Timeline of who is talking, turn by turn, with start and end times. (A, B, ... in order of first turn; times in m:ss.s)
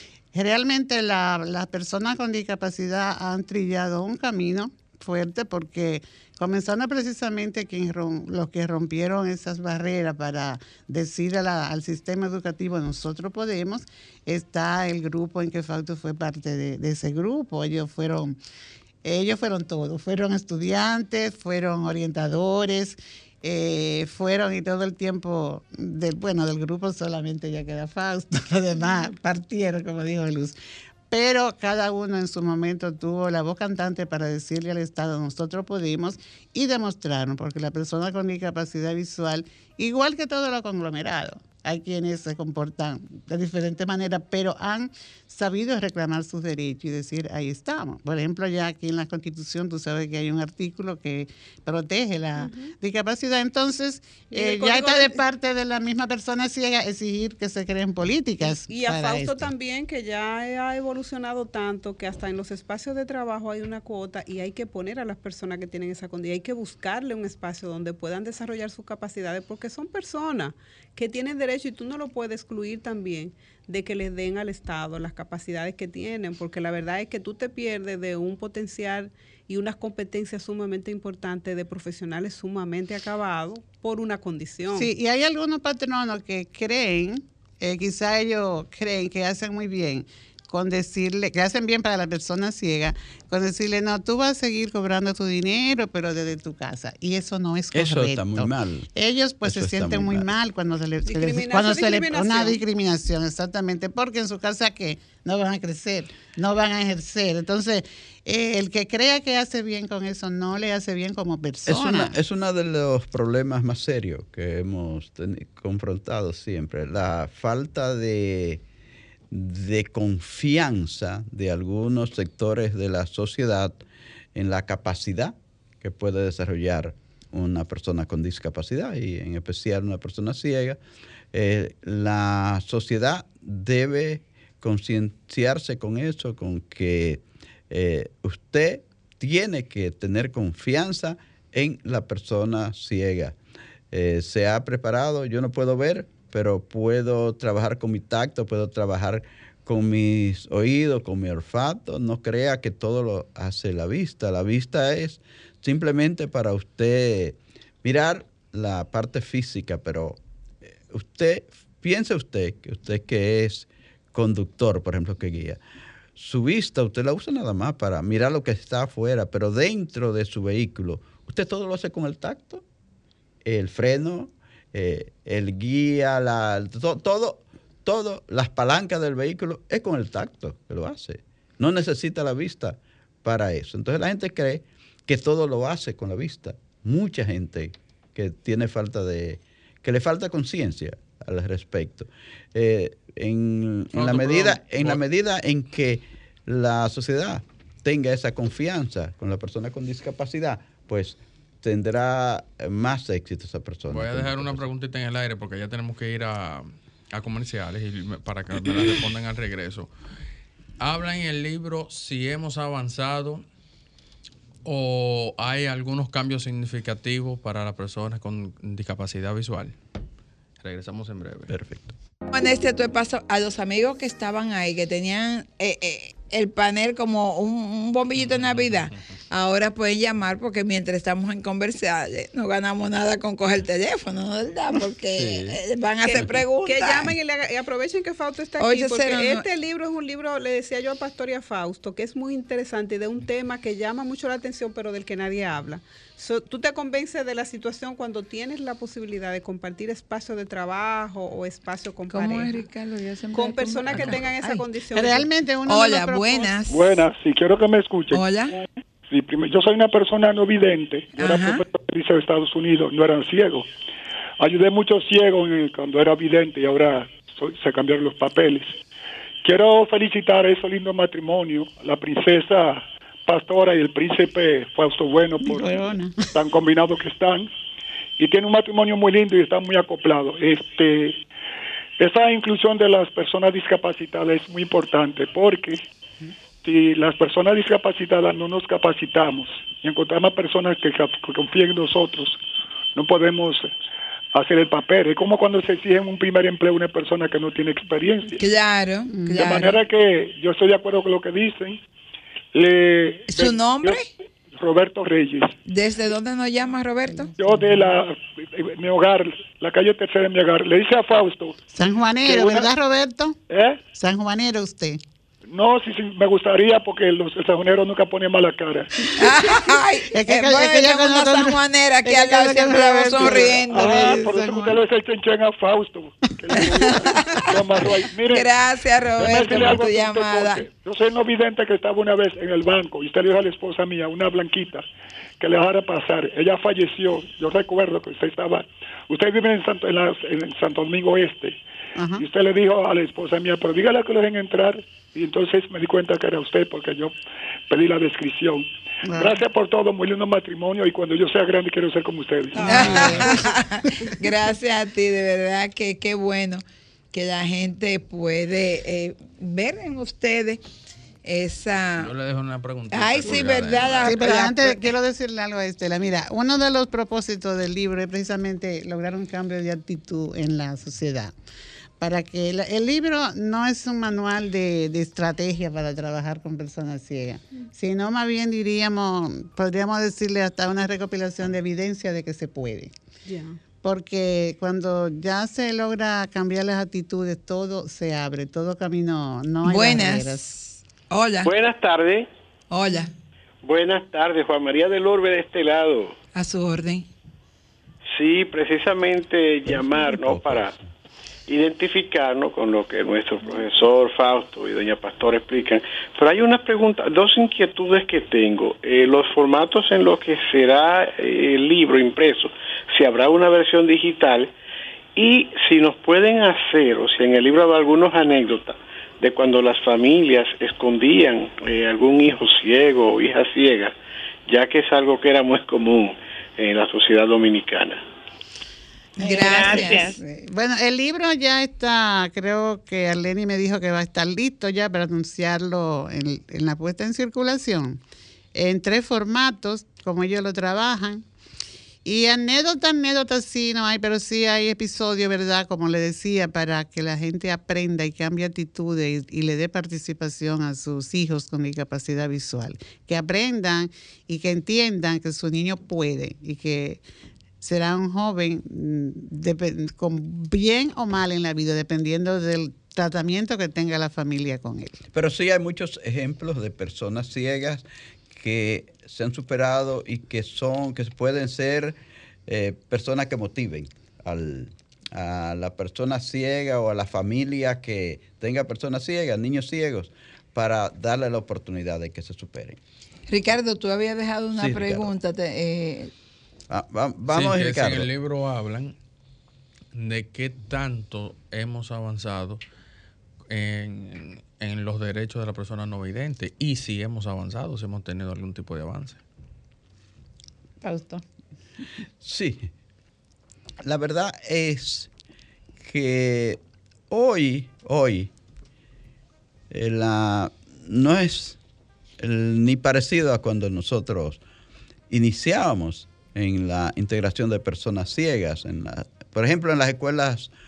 0:00.3-0:18.4 A
0:19.0-0:30.6 A
0:31.1-0:59.5 A
0:52.4-0:52.7 B
0:54.3-0:55.2 B
0:58.4-1:24.9 B
1:24.7-1:52.1 A
1:37.7-1:38.9 C
1:39.4-1:40.3 C
1:41.1-1:42.6 B
1:51.7-1:58.6 C
1:59.3-2:03.8 C
2:04.4-2:10.8 C
2:11.3-2:23.4 C
2:23.9-2:40.2 C
2:40.9-2:45.6 C
2:46.2-2:52.6 C
2:53.4-3:24.7 C
3:13.9-3:15.0 D
3:23.9-3:29.9 D
3:30.8-3:33.4 D
3:34.7-3:39.8 D
3:40.6-3:41.5 D
3:41.5-3:41.9 C
3:42.3-3:57.1 E
3:48.3-3:48.8 D
3:55.2-3:55.6 D
3:56.0-4:12.6 B
3:58.6-3:59.4 E
4:12.1-4:14.6 E
4:13.3-4:15.3 B
4:14.9-4:16.5 A
4:15.7-4:16.8 E
4:16.7-4:18.2 F
4:18.1-4:18.5 E
4:19.1-4:23.7 F
4:21.2-4:21.6 E
4:24.4-4:28.8 F
4:29.4-4:37.5 F
4:35.4-4:36.3 A
4:38.2-4:41.2 F
4:42.0-4:45.8 F
4:46.6-4:52.4 F
4:53.0-4:53.7 F
4:54.3-4:58.4 F
4:58.4-4:59.8 E
4:59.1-4:59.6 A
4:59.3-5:01.8 F
5:02.5-5:04.0 F
5:03.3-5:04.1 E
5:04.6-5:05.5 F
5:05.7-5:07.3 E
5:07.4-5:11.6 F
5:11.7-5:13.4 A
5:12.2-5:12.7 F
5:13.5-5:13.8 F
5:14.0-5:15.0 A
5:15.5-5:18.9 F
5:19.2-5:24.3 E
5:20.1-5:24.8 A
5:23.2-5:28.5 F
5:26.6-5:27.3 E
5:28.3-5:30.6 E
5:29.2-5:34.8 F
5:35.4-5:41.6 F
5:42.0-5:42.2 A
5:42.2-5:47.1 F
5:47.7-5:53.4 F
5:49.1-5:49.4 A
5:52.5-5:53.1 B
5:52.6-6:00.6 E
5:52.8-5:53.3 A
6:01.2-6:02.1 E
6:02.0-6:04.3 D
6:02.9-6:04.9 E
6:04.0-6:11.3 A
6:12.0-6:22.9 A
6:23.3-6:23.6 B
6:23.8-6:30.4 A
6:29.7-6:31.5 E
6:31.4-6:32.3 G
6:32.7-6:33.1 E
6:33.6-6:36.2 G
6:36.4-6:37.1 E
6:38.2-6:40.7 G
6:39.7-6:40.9 C
6:41.5-6:54.5 G
6:55.2-7:03.9 G
7:04.5-7:08.0 G
7:09.2-7:10.1 E
7:09.2-7:18.0 A
7:18.6-7:21.2 A
7:22.0-7:37.0 A
7:37.6-7:45.0 A
7:45.1-8:02.8 C
8:03.3-8:06.1 E
8:04.6-8:05.1 C
8:06.7-8:08.1 C
8:07.3-8:09.0 D
8:09.9-8:12.6 D
8:13.5-8:19.2 D
8:20.8-8:21.2 E
8:22.2-8:22.7 C
8:23.8-8:25.1 C
8:25.8-8:28.3 C
8:29.7-8:31.6 C
8:32.2-8:34.4 C
8:35.1-8:40.5 C